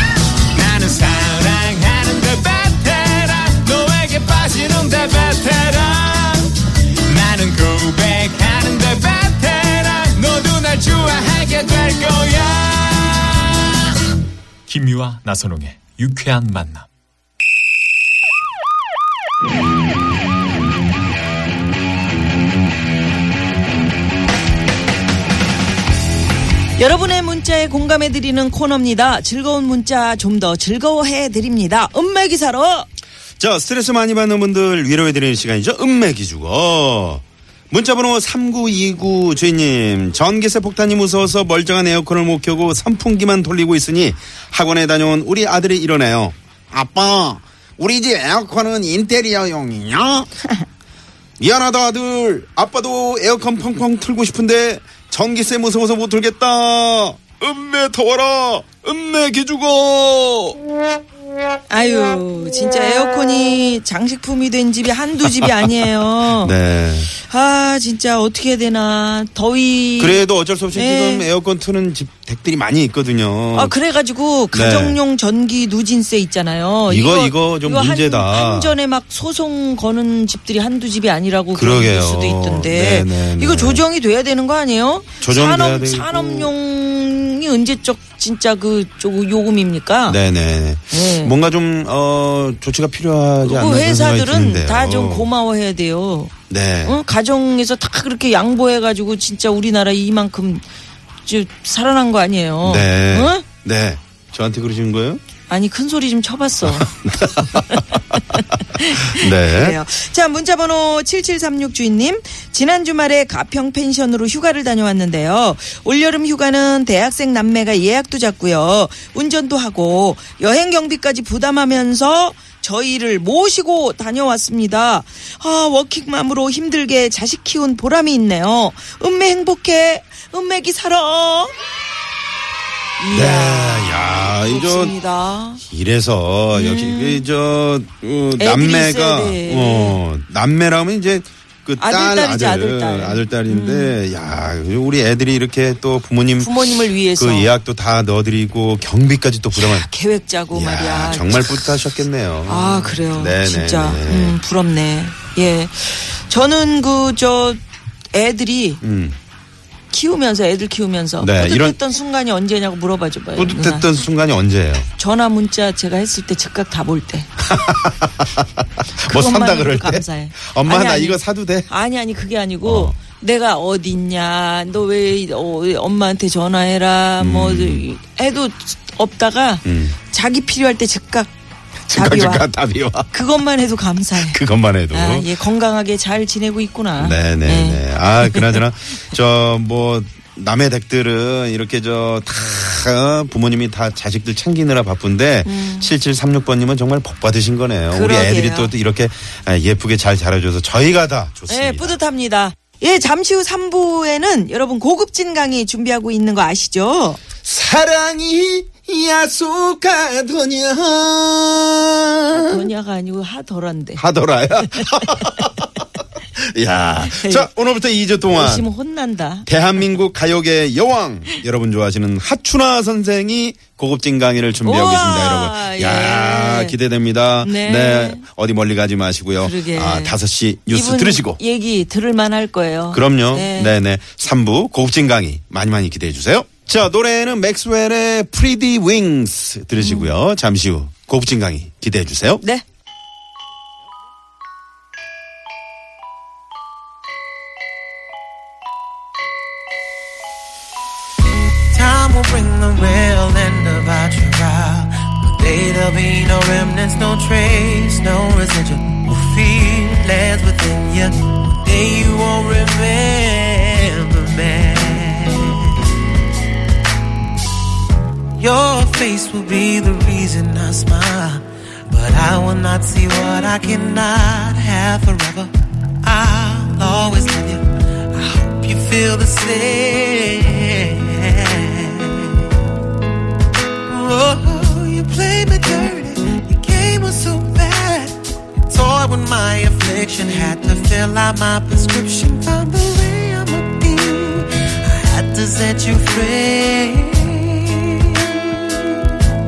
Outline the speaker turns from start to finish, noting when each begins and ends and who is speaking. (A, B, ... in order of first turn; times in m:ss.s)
0:00.5-0:13.5 A
0:14.7-0:16.9 A
0:26.8-0:32.9 B
0:33.4-0:50.3 C
0:51.4-1:00.6 C
1:01.7-1:06.5 B
1:06.4-1:07.1 C
1:07.1-1:11.3 B
1:10.0-1:13.8 C
1:13.5-1:30.2 B
1:14.5-1:15.0 C
1:16.9-1:18.8 C
1:21.5-1:23.8 C
1:25.2-1:26.5 C
1:30.1-1:35.3 C
1:30.9-1:31.3 B
1:33.4-1:36.3 B
1:36.5-1:37.0 C
1:36.8-1:40.6 B
1:41.2-1:43.4 B
1:42.6-1:45.2 C
1:45.5-2:11.5 B
1:46.6-1:47.8 C
1:49.1-1:49.8 C
2:13.0-2:15.6 B
2:13.1-2:15.0 C
2:15.5-2:29.9 C
2:16.5-2:17.2 B
2:18.3-2:20.0 B
2:21.8-2:24.0 B
2:26.4-2:27.5 B
2:29.5-2:31.8 B
2:30.5-2:34.4 C
2:32.4-2:37.6 B
2:38.1-2:38.8 B
2:38.8-2:39.2 C
2:39.9-2:43.9 B
2:41.2-2:41.8 C
2:43.4-2:44.9 C
2:45.0-2:47.3 B
2:47.4-2:48.4 C
2:49.0-3:01.3 B
2:49.0-2:51.7 C
2:52.6-2:53.0 C
2:57.2-2:57.9 C
2:59.6-3:00.0 C
3:01.9-3:02.5 B
3:01.9-3:03.1 C
3:03.1-3:08.6 B
3:04.2-3:05.3 C
3:07.0-3:22.0 C
3:15.4-3:15.9 B
3:17.9-3:18.7 B
3:21.5-3:27.2 B
3:27.4-3:32.7 C
3:32.3-3:34.0 B
3:34.0-3:35.7 C
3:36.4-3:38.7 C
3:37.0-3:37.5 B
3:38.3-3:39.5 B
3:39.4-3:51.4 C
3:44.6-3:46.8 B
3:47.4-3:48.2 B
3:49.4-3:50.2 B
3:50.7-3:53.8 B
3:52.9-4:02.4 C
3:59.8-4:00.1 B
4:11.7-4:25.9 D
4:28.4-4:42.5 D
4:43.9-4:59.0 D